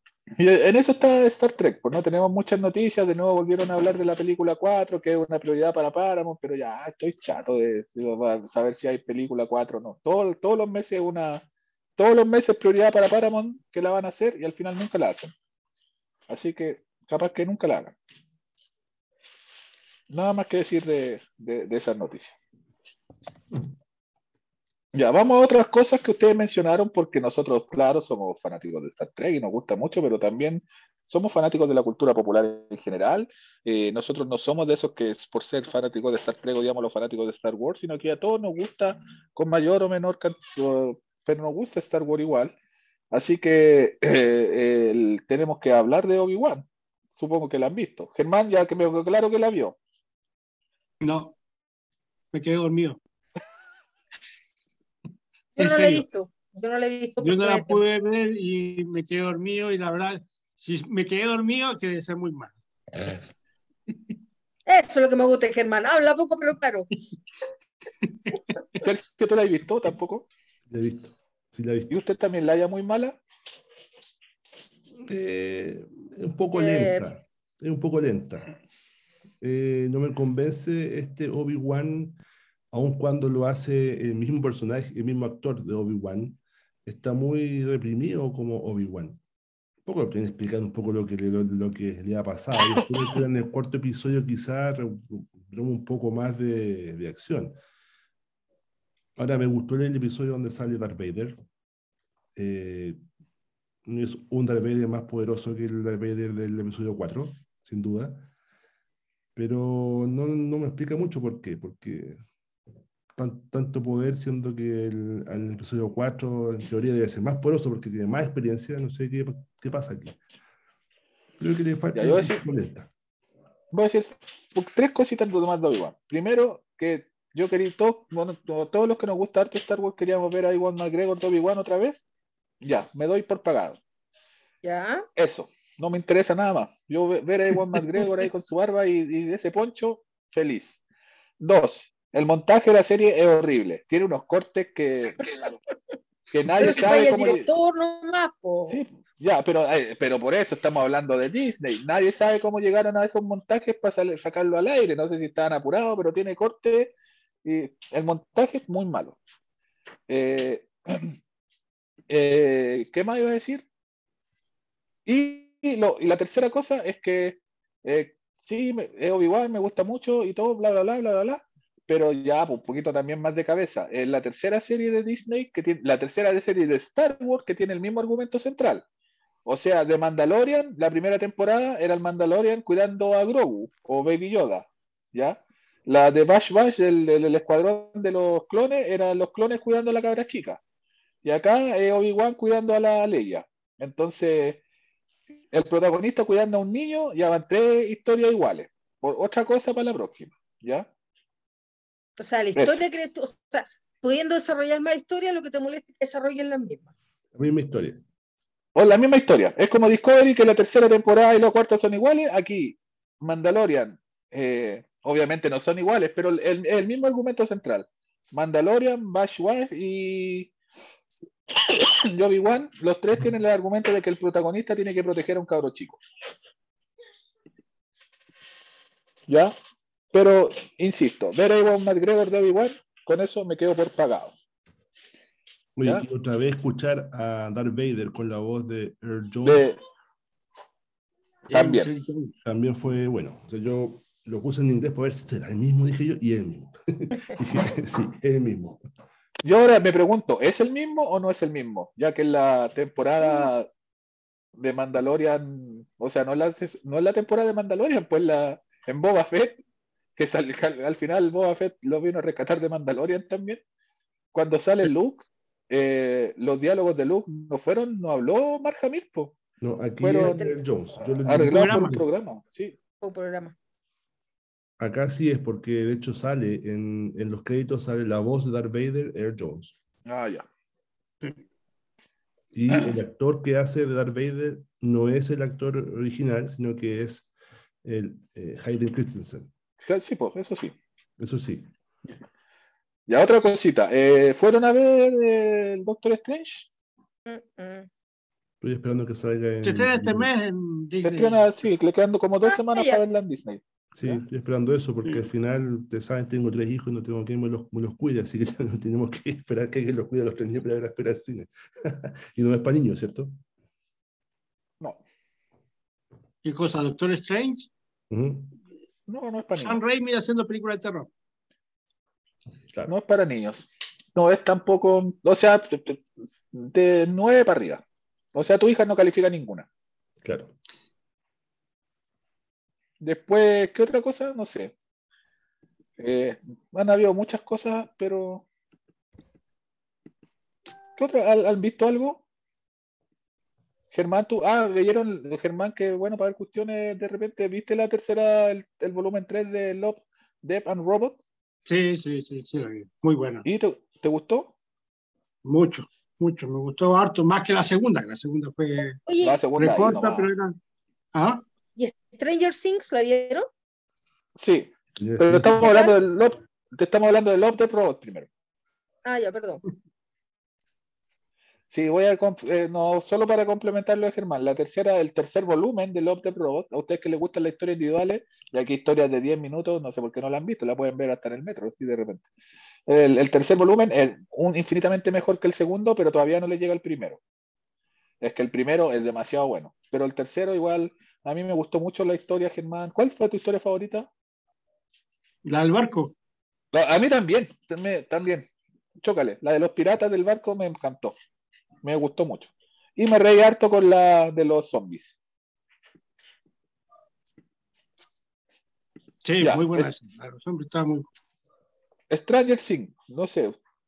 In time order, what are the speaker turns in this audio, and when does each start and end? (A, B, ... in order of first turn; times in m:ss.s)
0:00.4-0:11.4 A
0:12.0-0:15.3 A
0:16.3-0:18.0 A
0:20.1-0:22.4 A
0:25.0-0:42.6 A
0:43.1-0:46.7 A
0:47.2-0:49.8 A
0:51.0-0:51.3 B
0:52.3-0:53.0 B
0:55.6-0:57.8 C
0:55.6-0:56.0 B
0:57.2-1:03.2 B
1:04.7-1:06.9 C
1:08.8-1:10.3 A
1:10.7-1:11.9 D
1:11.9-1:13.2 A
1:15.0-1:18.5 D
1:16.5-1:17.1 C
1:19.4-1:22.2 D
1:22.7-1:29.2 D
1:29.9-1:37.6 D
1:39.2-1:41.4 D
1:42.4-1:43.0 D
1:43.9-1:48.3 D
1:49.4-1:52.2 D
1:53.2-2:00.2 D
2:01.4-2:02.9 D
2:01.9-2:02.4 A
2:03.7-2:12.0 A
2:12.6-2:13.8 A
2:14.6-2:15.1 C
2:15.2-2:20.8 A
2:21.4-2:25.4 A
2:26.3-2:27.5 A
2:26.6-2:28.8 C
2:28.7-2:39.2 A
2:40.1-2:41.1 A
2:42.1-2:43.6 A
2:45.1-2:58.8 A
2:59.5-3:10.6 A
3:11.2-3:14.6 A
3:15.5-3:20.9 A
3:22.2-3:26.8 C
3:27.4-3:28.0 D
3:28.8-3:40.5 A
3:41.6-3:46.0 A
3:49.3-3:49.5 A
3:50.1-3:54.3 A
3:55.8-3:59.7 D
3:59.4-3:59.8 A
4:01.5-4:02.4 B
4:01.5-4:01.9 A
4:02.4-4:08.8 D
4:09.4-4:13.7 A
4:13.2-4:13.5 C
4:14.6-4:19.6 A
4:20.2-4:23.6 A
4:24.3-4:29.4 A
4:29.6-4:32.0 D
4:30.0-4:30.4 A
4:30.2-4:30.6 C
4:31.2-4:32.8 A
4:31.5-4:31.9 B
4:33.0-4:33.6 C
4:34.8-4:39.8 D
4:40.1-4:40.5 A
4:42.5-4:47.3 D
4:47.8-4:49.5 D
4:49.8-4:50.7 A
4:51.2-4:51.7 D
4:53.1-4:56.7 A
4:57.3-4:57.9 C
4:58.6-5:00.3 D
4:59.6-5:01.5 B
5:01.0-5:04.2 A
5:02.4-5:03.0 C
5:03.9-5:13.4 D
5:16.4-5:17.7 B
5:18.1-5:18.6 D
5:19.1-5:19.8 A
5:19.6-5:21.1 B
5:22.9-5:27.8 A
5:28.3-5:29.7 A
5:30.2-5:30.5 D
5:33.0-5:34.7 A
5:36.0-5:38.4 A
5:41.0-5:42.2 A
5:43.9-5:51.2 A
5:51.7-5:53.5 B
5:53.4-5:54.5 A
5:55.4-5:59.0 B
5:59.0-5:59.4 C
5:59.2-6:00.3 A
5:59.6-6:00.6 B
6:01.1-6:01.4 B
6:01.8-6:03.5 C
6:04.4-6:08.3 A
6:05.0-6:05.7 D
6:05.6-6:06.0 C
6:09.0-6:09.6 C
6:11.7-6:22.3 A
6:22.9-6:27.2 A
6:28.2-6:34.1 A
6:35.4-6:36.1 B
6:36.7-6:38.5 A
6:39.0-6:41.2 A
6:41.8-6:45.2 A
6:49.2-6:51.1 B
6:49.4-6:49.9 A
6:52.1-6:53.6 A